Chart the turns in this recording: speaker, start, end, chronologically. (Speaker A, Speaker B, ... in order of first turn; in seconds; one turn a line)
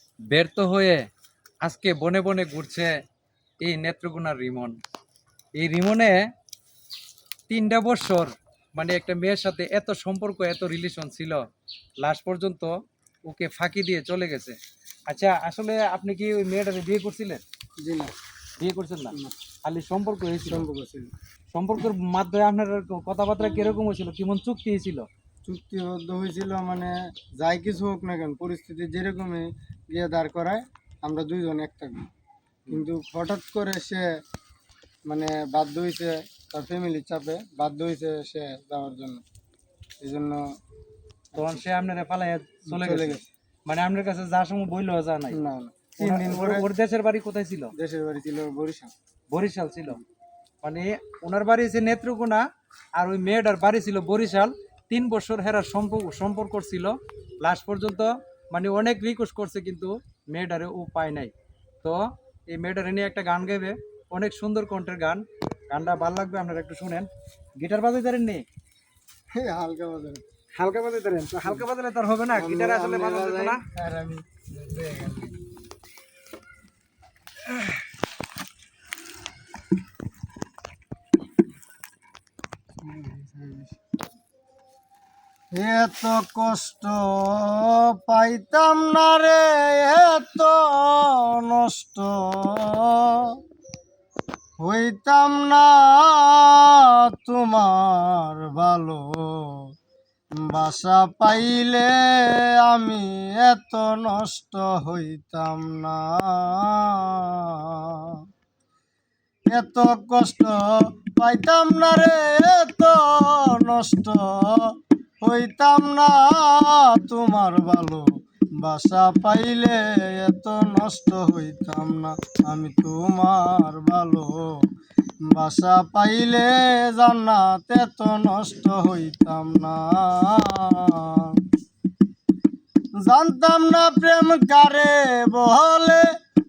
Speaker A: 0.3-1.0
Speaker A: 1.6-2.9
Speaker A: 3.6-4.8
Speaker A: 5.6-6.2
Speaker A: 7.5-11.4
Speaker A: 12.0-12.8
Speaker A: 13.3-17.4
Speaker B: 17.8-18.1
Speaker A: 18.6-20.7
Speaker B: 20.4-21.1
Speaker A: 21.5-25.1
Speaker B: 25.5-32.1
Speaker B: 32.7-34.1
Speaker B: 35.1-39.2
Speaker B: 40.0-40.4
Speaker B: 41.3-41.6
Speaker A: 41.4-45.4
Speaker B: 42.7-43.3
Speaker B: 45.3-46.7
Speaker A: 46.0-47.7
Speaker B: 47.8-48.9
Speaker A: 49.3-50.0
Speaker A: 50.6-52.4
Speaker A: 53.0-62.0
Speaker A: 62.5-67.1
Speaker A: 67.6-68.4
Speaker B: 69.3-70.2
Speaker A: 70.6-73.6
Speaker B: 72.3-75.4
Speaker B: 83.0-83.6
Speaker B: 85.6-93.4
Speaker B: 94.6-99.6
Speaker B: 100.5-108.2
Speaker B: 109.5-114.7
Speaker B: 115.2-118.0
Speaker B: 118.6-124.5
Speaker B: 125.3-131.4
Speaker B: 133.0-136.1